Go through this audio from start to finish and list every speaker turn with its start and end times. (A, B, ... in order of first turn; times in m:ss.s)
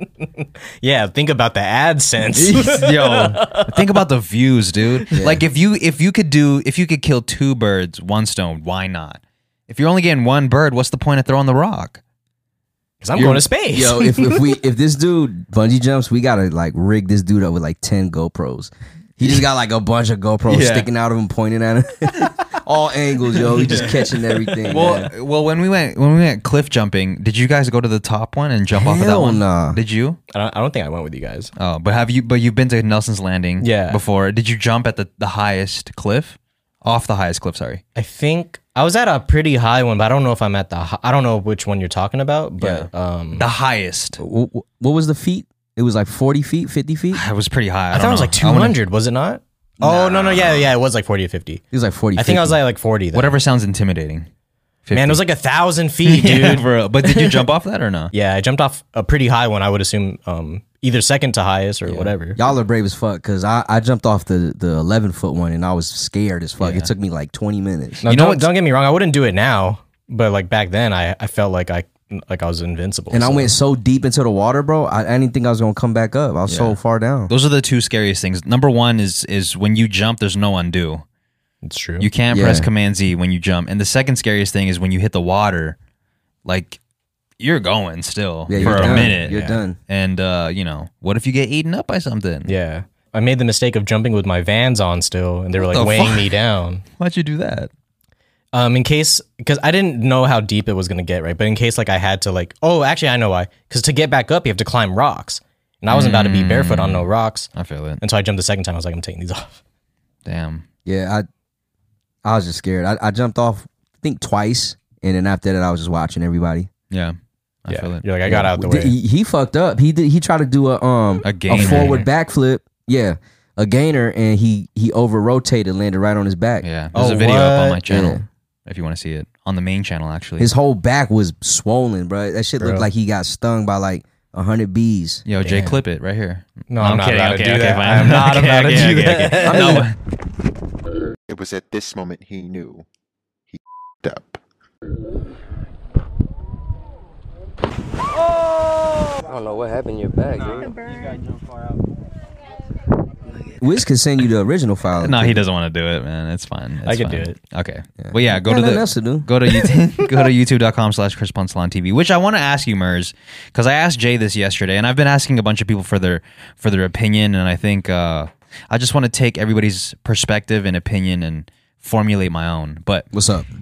0:00.2-0:03.8 A
0:02.3-0:12.0 B
0:05.1-0:05.4 C
0:13.0-0:14.5 A
0:13.1-0:13.4 B
0:13.2-0:25.1 C
0:20.5-0:20.9 B
0:23.5-0:23.9 B
0:24.7-0:30.2 B
0:28.8-0:29.8 C
0:30.3-0:31.5 A
0:31.6-0:37.8 B
0:33.6-0:34.0 A
0:38.0-0:43.5 A
0:42.6-0:44.2 B
0:44.2-0:47.2 C
0:47.1-0:48.8 B
0:47.9-0:51.6 A
0:49.8-0:50.7 B
0:51.7-0:52.6 C
0:52.2-0:53.3 A
0:53.1-0:54.3 B
0:54.9-0:55.2 B
0:54.9-0:57.4 A
0:56.0-0:58.1 B
0:58.1-1:02.4 A
1:01.9-1:02.1 B
1:02.4-1:08.0 C
1:06.6-1:06.9 B
1:08.0-1:13.5 A
1:08.0-1:08.5 B
1:13.1-1:17.3 C
1:16.5-1:16.8 B
1:17.3-1:21.0 B
1:21.6-1:22.1 A
1:22.0-1:25.8 B
1:22.3-1:22.7 C
1:26.4-1:26.8 B
1:27.4-1:32.5 B
1:28.5-1:29.8 C
1:28.6-1:29.6 A
1:32.5-1:36.8 A
1:35.6-1:36.3 B
1:37.0-1:37.7 B
1:38.5-1:47.5 A
1:45.9-1:48.0 B
1:48.0-1:49.6 A
1:50.3-1:50.6 B
1:50.9-1:51.3 C
1:52.2-1:56.7 C
1:56.9-1:58.1 B
1:57.7-1:59.0 A
1:58.3-2:06.6 C
2:01.2-2:02.0 B
2:01.6-2:02.1 A
2:06.6-2:10.5 B
2:06.9-2:07.8 A
2:07.9-2:08.2 C
2:10.4-2:15.2 C
2:12.6-2:12.9 A
2:15.3-2:20.0 B
2:15.4-2:15.8 A
2:16.7-2:19.9 A
2:19.4-2:19.9 C
2:21.3-2:22.8 D
2:23.5-2:24.4 D
2:29.2-2:31.2 E
2:33.6-2:35.4 C
2:35.0-2:53.1 B
2:36.9-2:37.4 A
2:38.0-2:39.3 C
2:53.1-2:53.5 C